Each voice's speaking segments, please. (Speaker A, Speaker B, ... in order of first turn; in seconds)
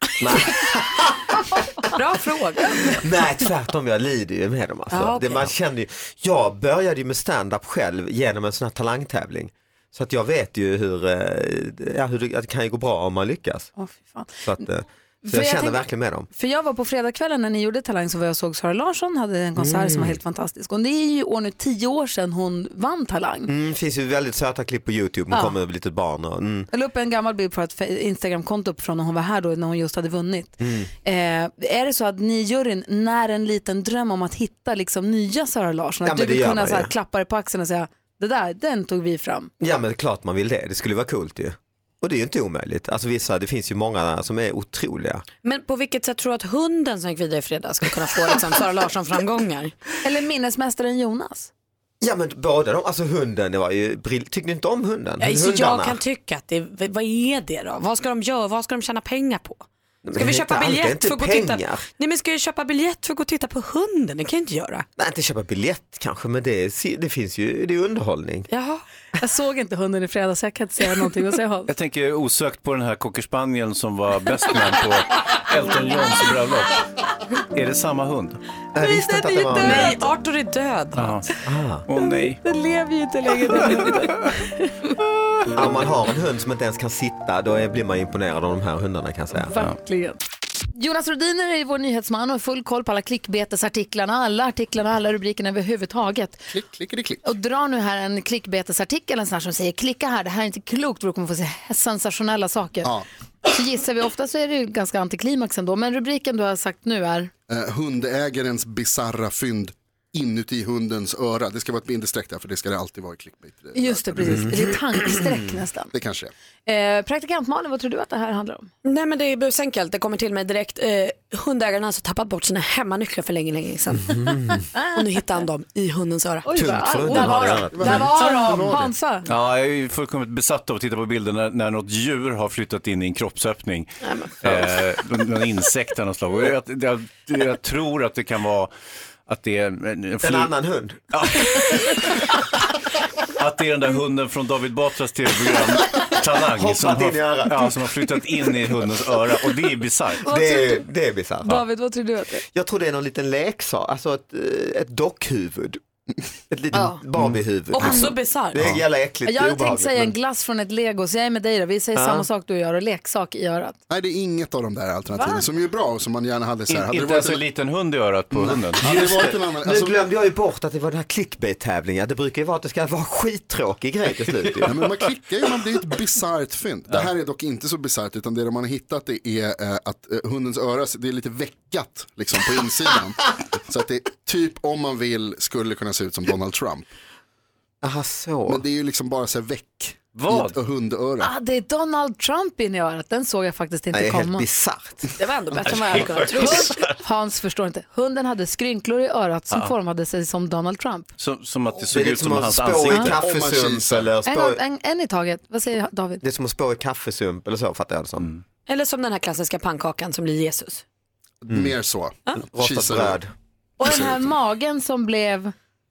Speaker A: 0.2-1.9, 2.9-13.7, 14.4-16.3, 19.6-20.2, 23.5-26.7, 30.6-30.9, 36.0-36.9, 39.6-45.2, 52.0-56.0, 60.0-61.8, 65.0-68.5, 78.7-80.0, 81.5-81.8, 85.5-89.5, 114.2-115.2, 124.0-124.7, 126.5-128.2, 140.2-141.1, 146.4-147.7, 150.3-151.6, 152.5-155.8, 156.5-160.2, 161.9-162.3, 168.8-174.8, 187.8-188.6, 193.9-195.1, 201.9-204.6, 206.2-208.3, 212.4-213.3
Speaker B: 1.9-3.0, 4.9-5.6, 45.4-49.7, 55.2-64.9, 68.5-68.8, 78.8-81.2, 118.8-124.3, 124.9-127.4, 134.0-134.6, 156.7-157.1, 157.7-158.6, 195.2-196.9, 208.7-210.8
Speaker C: 13.8-14.7, 15.2-23.5, 25.3-25.6, 26.7-39.5, 50.0-51.5, 69.2-71.7, 79.1-80.0, 82.0-84.7, 89.3-90.2, 90.7-96.5, 97.2-102.9, 103.5-107.3, 113.7-115.9, 116.7-118.7, 124.7-125.0, 126.4-129.3, 150.2-150.9, 151.4-152.4, 157.8-158.1, 159.2-163.8, 165.1-165.4, 191.2-194.5, 196.3-201.1, 202.9-203.2, 204.2-206.2, 213.8-215.5
Speaker D: 71.7-76.8, 77.5-78.4, 80.9-81.3, 81.9-82.4, 129.3-138.7, 139.3-140.5, 141.1-142.1, 143.4-150.2, 166.7-169.1, 190.1-190.6, 195.7-196.9, 201.2-203.2
Speaker E: 96.5-97.2, 107.5-114.3, 115.9-116.3, 127.7-128.9, 163.9-167.4, 168.3-170.0, 174.7-186.9, 188.5-191.3, 203.2-204.1, 211.4-213.2, 213.8-214.3